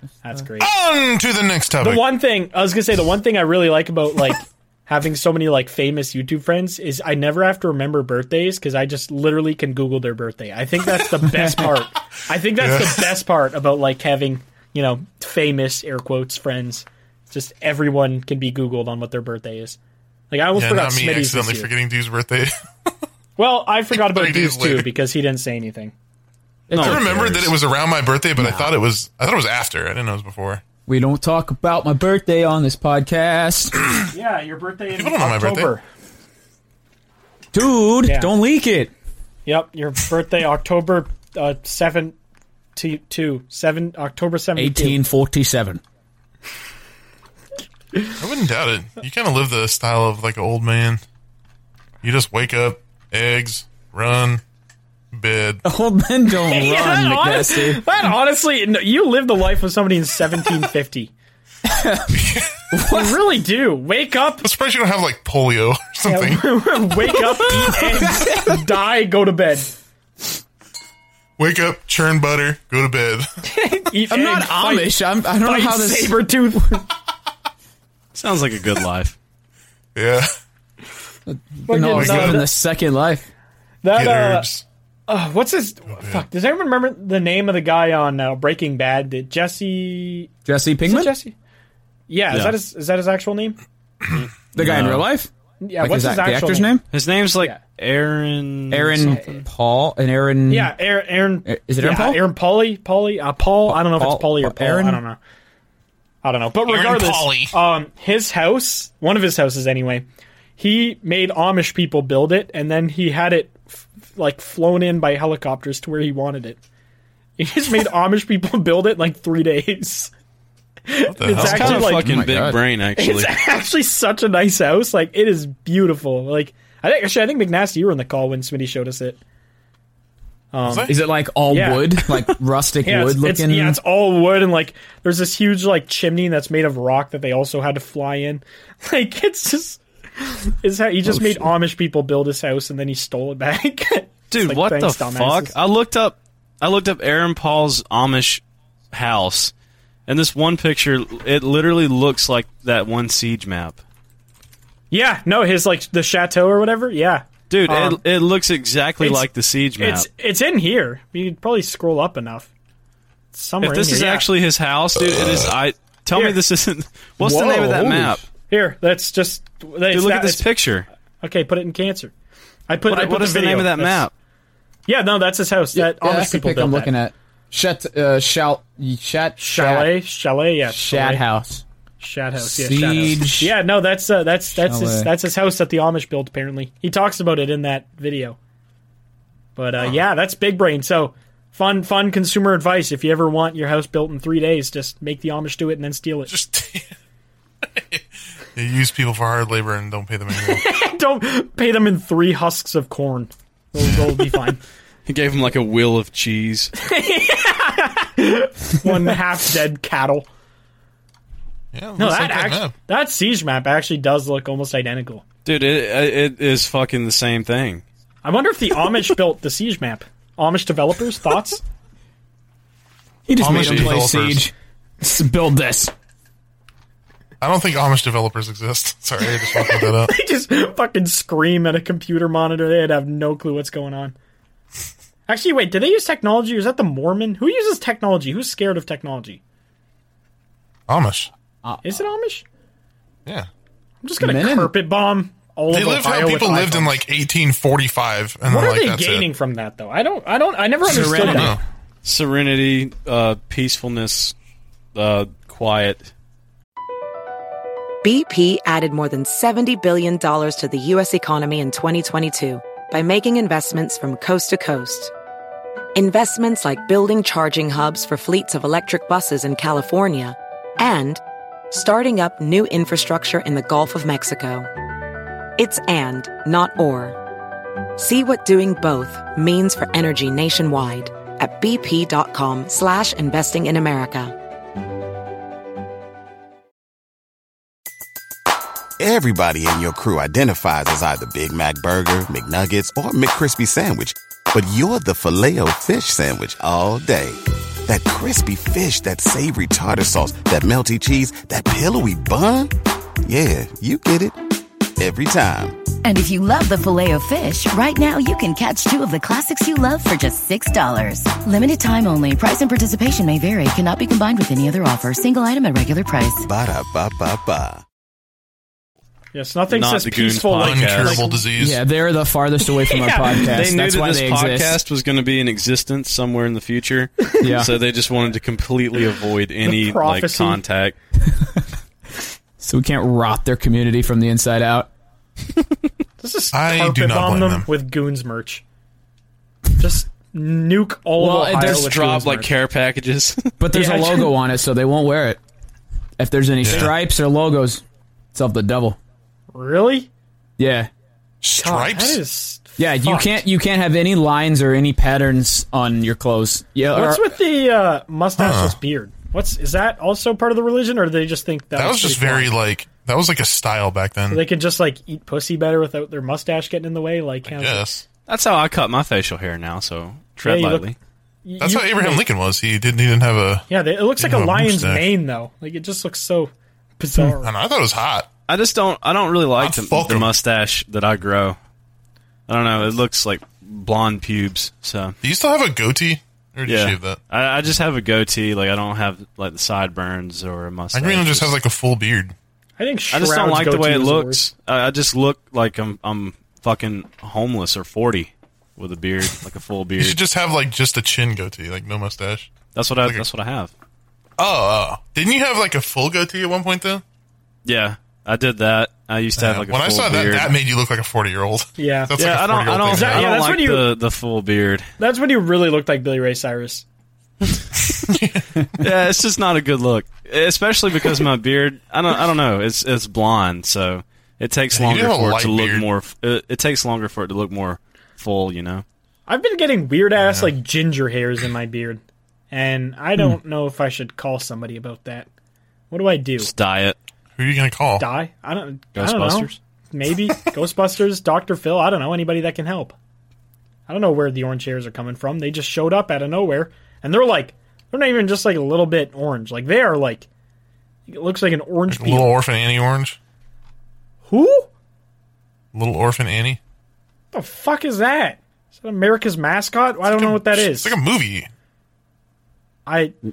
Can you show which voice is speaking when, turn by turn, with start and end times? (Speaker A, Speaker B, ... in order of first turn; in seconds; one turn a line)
Speaker A: 0.2-0.7
Speaker B: 0.6-2.1
Speaker A: 1.8-19.8
Speaker B: 12.6-13.1
Speaker A: 20.3-21.7
Speaker B: 20.5-22.9
Speaker A: 23.4-25.9
Speaker B: 24.0-24.9
Speaker C: 26.7-27.5
Speaker D: 26.7-27.2
Speaker B: 26.7-30.6
Speaker C: 28.4-28.7
Speaker C: 30.9-33.8
Speaker A: 34.1-35.8
Speaker B: 34.9-35.7
Speaker C: 37.5-38.9
Speaker A: 38.0-38.3
Speaker A: 39.5-42.1
Speaker A: 42.8-45.0
Speaker C: 44.5-45.8
Speaker B: 48.2-51.0
Speaker B: 52.0-54.4
Speaker B: 55.1-55.6
Speaker C: 55.6-57.9
Speaker A: 56.5-61.1
Speaker C: 61.6-63.2
Speaker B: 62.1-62.5
Speaker A: 62.8-64.5
Speaker B: 64.4-66.5
Speaker A: 66.0-69.7
Speaker C: 67.6-68.6
Speaker B: 71.4-73.3
Speaker A: 73.4-76.9
Speaker C: 74.1-76.2
Speaker D: 78.1-79.2
Speaker B: 79.9-80.3
Speaker C: 81.3-83.3
Speaker A: 81.7-82.5
Speaker B: 81.9-82.4
Speaker A: 83.8-84.5
Speaker B: 83.9-84.6
Speaker A: 85.1-90.3
Speaker B: 85.9-86.2
Speaker C: 90.5-91.1
Speaker A: 90.8-91.3
Speaker A: 92.1-93.6
Speaker D: 94.1-95.0
Speaker C: 94.5-96.8
Speaker A: 95.6-96.7
Speaker D: 96.9-99.4
Speaker C: 98.7-100.7
Speaker A: 99.0-99.4
Speaker A: 100.5-105.2
Speaker C: 101.4-102.2
Speaker C: 103.7-105.0
Speaker A: 106.2-110.1
Speaker B: 106.6-107.5
Speaker A: 110.6-116.6
Speaker A: 117.4-120.1
Speaker A: 120.9-122.2
Speaker B: 121.1-121.9
Speaker D: 121.3-123.3
Speaker C: 121.4-122.6
Speaker A: 123.0-129.2
Speaker A: 130.5-130.9
Speaker B: 130.6-130.9
Speaker C: 130.8-133.8
Speaker A: 131.5-132.3
Speaker A: 132.8-145.5
Speaker C: 141.1-141.5
Speaker D: 144.3-149.5
Speaker D: 150.1-153.8
Speaker A: 154.9-158.0
Speaker D: 157.5-160.1
Speaker A: 159.0-159.2
Speaker A: 159.8-162.5
Speaker A: 163.3-164.3
Speaker D: 163.6-168.2
Speaker A: 166.1-166.4
Speaker C: 167.2-168.2
Speaker A: 168.5-170.4
Speaker D: 169.9-170.9
Speaker A: 171.2-172.1
Speaker A: 172.7-174.1
Speaker D: 172.9-174.1
Speaker A: 174.9-176.9
Speaker C: 175.7-180.0
Speaker A: 179.4-181.2
Speaker C: 180.7-181.6
Speaker A: 182.0-188.4
Speaker C: 182.4-183.5
Speaker C: 184.6-185.1
Speaker A: 189.6-196.3
Speaker B: 196.3-196.9
Speaker B: 197.7-198.0
Speaker B: 198.5-200.6
Speaker A: 200.3-204.6
Speaker B: 203.8-204.4
Speaker D: 205.1-206.7
Speaker A: 206.8-210.3
Speaker B: 211.7-212.8
Speaker A: 212.0-215.2
Speaker D: 215.4-217.8
Speaker A: 218.2-221.6
Speaker C: 223.3-225.9
Speaker B: 223.4-224.4
Speaker D: 223.4-224.0
Speaker B: 227.4-230.1
Speaker A: 229.2-234.1
Speaker A: 235.3-239.4
Speaker B: 240.9-241.3
Speaker A: 241.8-242.4
Speaker A: 244.0-247.0
Speaker C: 244.2-244.7
Speaker B: 245.7-249.3
Speaker A: 248.4-251.6
Speaker C: 250.8-251.6
Speaker B: 251.0-251.6
Speaker D: 252.0-254.3
Speaker D: 254.9-256.1
Speaker E: 258.0-265.1
Speaker E: 265.9-274.7
Speaker E: 275.6-277.2
Speaker E: 278.0-284.4
Speaker F: 289.0-302.7
Speaker F: 303.2-304.4
Speaker F: 305.0-305.8
Speaker G: 306.0-316.5
Speaker F: 316.4-317.8
Speaker A: 319.3-321.5
Speaker D: 319.7-321.2
Speaker B: 320.6-321.8
Speaker C: 321.6-324.8
Speaker A: 322.8-323.6
Speaker D: 323.3-330.9
Speaker C: 327.4-327.7
Speaker A: 329.6-330.6
Speaker C: 331.3-331.6
Speaker C: 332.6-334.9
Speaker A: 336.2-338.6
Speaker B: 336.5-337.7
Speaker A: 339.8-342.5
Speaker C: 341.2-341.9
Speaker D: 341.6-343.6
Speaker C: 343.6-345.4
Speaker A: 343.7-344.3
Speaker C: 346.2-349.0
Speaker B: 346.6-346.9
Speaker A: 349.5-350.1
Speaker C: 350.6-350.9
Speaker B: 351.4-352.2
Speaker A: 351.5-353.4
Speaker C: 352.8-357.2
Speaker A: 356.9-362.5
Speaker B: 358.4-358.8
Speaker B: 361.7-364.4
Speaker A: 364.3-367.9
Speaker B: 367.4-368.0
Speaker D: 368.3-370.9
Speaker A: 370.4-370.9
Speaker A: 371.4-372.2
Speaker B: 371.6-373.7
Speaker A: 373.7-377.5
Speaker B: 374.2-375.1
Speaker B: 377.3-378.3
Speaker D: 378.5-381.6
Speaker B: 379.6-380.3
Speaker D: 382.5-385.1
Speaker B: 385.2-387.2
Speaker D: 386.7-391.5
Speaker B: 390.9-392.3
Speaker A: 392.8-394.4
Speaker D: 393.1-400.2
Speaker B: 400.0-402.5
Speaker D: 402.7-403.7
Speaker B: 404.4-407.0
Speaker D: 407.6-410.5
Speaker B: 409.4-413.4
Speaker A: 411.8-412.3
Speaker D: 412.2-414.9
Speaker A: 412.9-413.9
Speaker A: 415.0-416.8
Speaker B: 417.9-418.8
Speaker D: 418.8-428.8
Speaker B: 424.7-425.9
Speaker A: 429.3-435.3
Speaker B: 430.2-430.5
Speaker A: 435.9-436.5
Speaker D: 436.4-437.0
Speaker B: 437.4-438.1
Speaker A: 438.0-442.9
Speaker D: 438.9-439.6
Speaker A: 443.9-450.3
Speaker A: 451.1-452.3
Speaker B: 451.9-453.2
Speaker A: 454.2-454.7
Speaker B: 455.7-456.6
Speaker A: 457.3-460.9
Speaker B: 460.0-461.5
Speaker A: 462.9-463.1